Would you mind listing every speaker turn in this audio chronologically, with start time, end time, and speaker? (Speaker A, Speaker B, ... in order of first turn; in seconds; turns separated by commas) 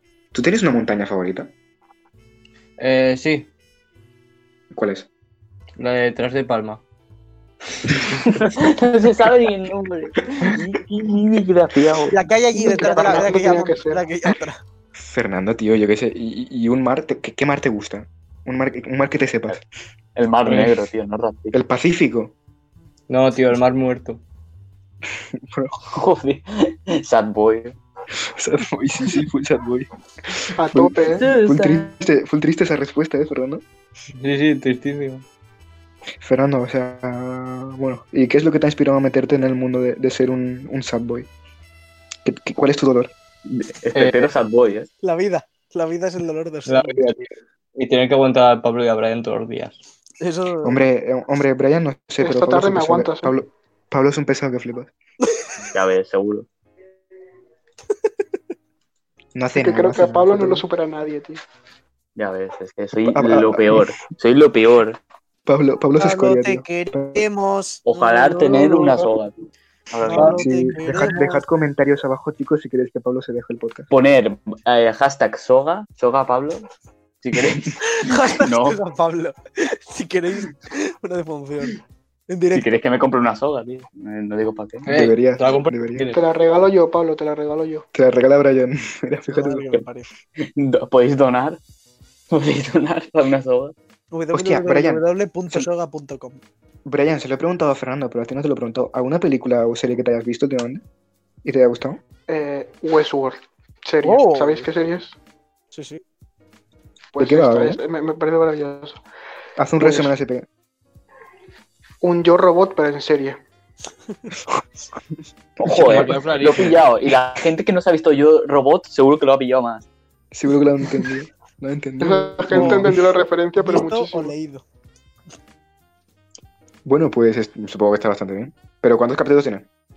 Speaker A: 0.3-1.5, Speaker B: 2.8-3.5, Speaker A: 4.7-5.1, Speaker B: 5.8-6.8, Speaker C: 8.5-12.2, Speaker D: 12.1-14.6, Speaker E: 12.5-14.1, Speaker A: 15.0-19.6, Speaker C: 20.1-21.6, Speaker B: 20.4-20.7, Speaker A: 21.5-22.3, Speaker B: 23.1-24.2, Speaker A: 25.3-25.7, Speaker C: 25.8-27.8, Speaker A: 28.4-33.6, Speaker E: 30.6-31.2, Speaker C: 31.1-31.9, Speaker B: 34.2-35.2, Speaker A: 36.2-41.3, Speaker A: 42.2-43.1, Speaker C: 43.5-44.9, Speaker B: 43.9-44.3, Speaker D: 45.0-47.1, Speaker B: 46.7-49.8, Speaker D: 50.2-50.8, Speaker A: 50.6-54.9, Speaker E: 52.2-53.4, Speaker C: 55.7-56.5, Speaker A: 59.3-60.6, Speaker E: 59.5-61.4, Speaker C: 62.1-65.0, Speaker A: 63.1-63.9, Speaker A: 65.5-67.2, Speaker D: 66.0-69.0, Speaker C: 67.8-69.3, Speaker C: 69.9-70.5, Speaker D: 70.0-71.4, Speaker B: 70.1-70.4, Speaker A: 70.4-73.9, Speaker C: 73.9-76.7, Speaker C: 77.2-78.8, Speaker D: 77.8-81.8, Speaker D: 82.3-82.7, Speaker C: 82.5-84.9, Speaker B: 84.8-86.2, Speaker A: 84.9-86.1, Speaker E: 86.1-87.8, Speaker A: 87.9-89.7, Speaker D: 89.3-90.0, Speaker C: 90.4-91.6, Speaker C: 92.3-93.7, Speaker D: 94.1-96.4, Speaker A: 94.3-95.7, Speaker A: 96.8-100.8, Speaker A: 101.4-102.0, Speaker E: 102.3-105.1, Speaker D: 104.0-104.7, Speaker D: 105.7-106.0, Speaker E: 107.1-109.0, Speaker A: 107.2-107.8, Speaker A: 109.6-110.5, Speaker E: 109.8-110.1, Speaker E: 112.0-113.4, Speaker C: 115.6-119.8, Speaker A: 115.7-116.1, Speaker B: 115.8-116.9, Speaker A: 120.3-122.9, Speaker E: 122.0-124.3, Speaker D: 122.5-122.9, Speaker D: 123.6-124.6, Speaker A: 126.8-129.7